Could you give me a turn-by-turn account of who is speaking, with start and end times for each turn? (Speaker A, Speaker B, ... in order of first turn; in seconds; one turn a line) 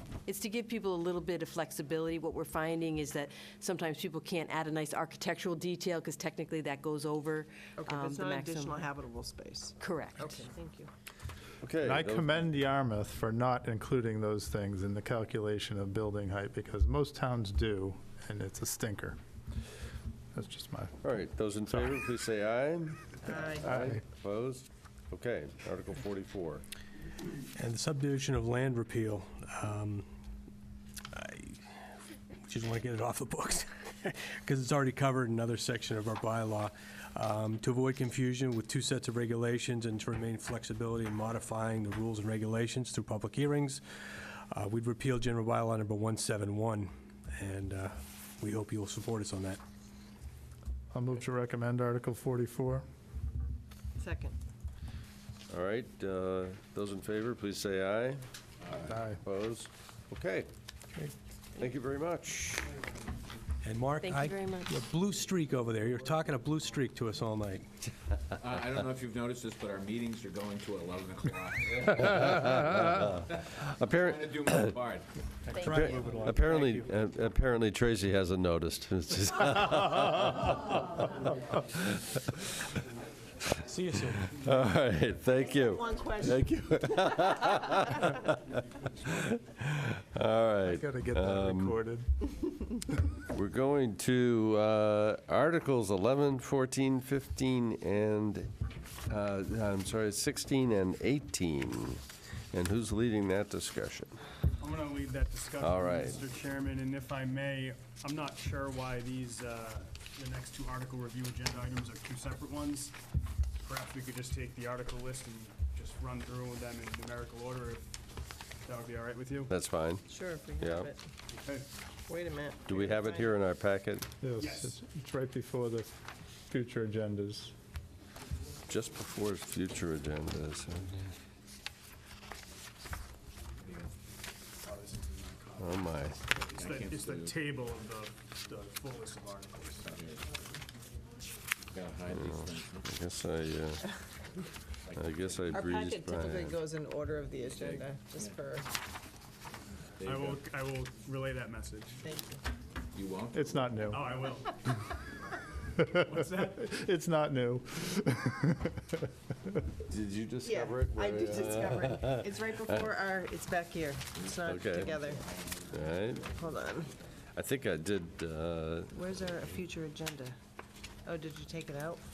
Speaker A: 0.3-8.9
Speaker B: 7.8-10.9
Speaker A: 9.8-10.5
Speaker C: 11.6-12.4
Speaker D: 11.8-19.2
Speaker D: 20.3-21.0
Speaker C: 21.0-26.6
Speaker B: 23.2-23.7
Speaker D: 23.6-24.0
Speaker E: 27.6-30.1
Speaker E: 31.1-31.8
Speaker E: 32.4-49.6
Speaker D: 50.9-52.9
Speaker B: 54.0-54.4
Speaker C: 55.5-58.2
Speaker F: 58.6-59.0
Speaker D: 58.8-59.2
Speaker C: 59.1-60.5
Speaker C: 61.6-62.8
Speaker E: 63.6-67.7
Speaker A: 64.0-64.8
Speaker F: 68.4-75.1
Speaker C: 71.9-74.8
Speaker A: 75.5-76.1
Speaker E: 75.5-76.9
Speaker C: 75.6-81.0
Speaker C: 81.6-82.4
Speaker C: 83.5-88.4
Speaker E: 83.7-84.3
Speaker B: 85.4-86.8
Speaker C: 89.0-91.8
Speaker D: 90.6-92.1
Speaker C: 93.3-98.5
Speaker C: 99.1-102.0
Speaker C: 102.5-104.1
Speaker G: 104.6-113.0
Speaker C: 105.6-106.2
Speaker G: 113.6-118.0
Speaker G: 118.7-119.5
Speaker C: 119.5-120.0
Speaker B: 120.1-121.0
Speaker C: 120.6-120.9
Speaker G: 121.3-121.7
Speaker B: 122.1-123.4
Speaker C: 122.7-124.1
Speaker D: 124.2-125.9
Speaker G: 124.4-124.8
Speaker D: 126.5-127.5
Speaker C: 128.7-131.1
Speaker F: 133.6-133.9
Speaker G: 134.6-140.0
Speaker C: 135.6-136.3
Speaker F: 136.5-137.4
Speaker F: 139.8-140.3
Speaker F: 141.7-143.0
Speaker C: 142.1-143.9
Speaker F: 144.8-145.6
Speaker C: 144.9-146.6
Speaker B: 145.5-148.7
Speaker F: 147.5-148.5
Speaker F: 150.0-150.4
Speaker G: 150.0-152.0
Speaker B: 152.0-152.4
Speaker F: 152.9-153.8
Speaker D: 153.3-154.2
Speaker G: 153.9-154.5
Speaker D: 155.8-159.0
Speaker G: 156.0-156.7
Speaker C: 159.9-163.0
Speaker B: 160.4-165.2
Speaker F: 164.2-166.5
Speaker C: 164.4-164.9
Speaker C: 165.7-166.3
Speaker B: 166.3-166.9
Speaker C: 167.3-169.6
Speaker B: 168.9-170.4
Speaker B: 171.1-172.0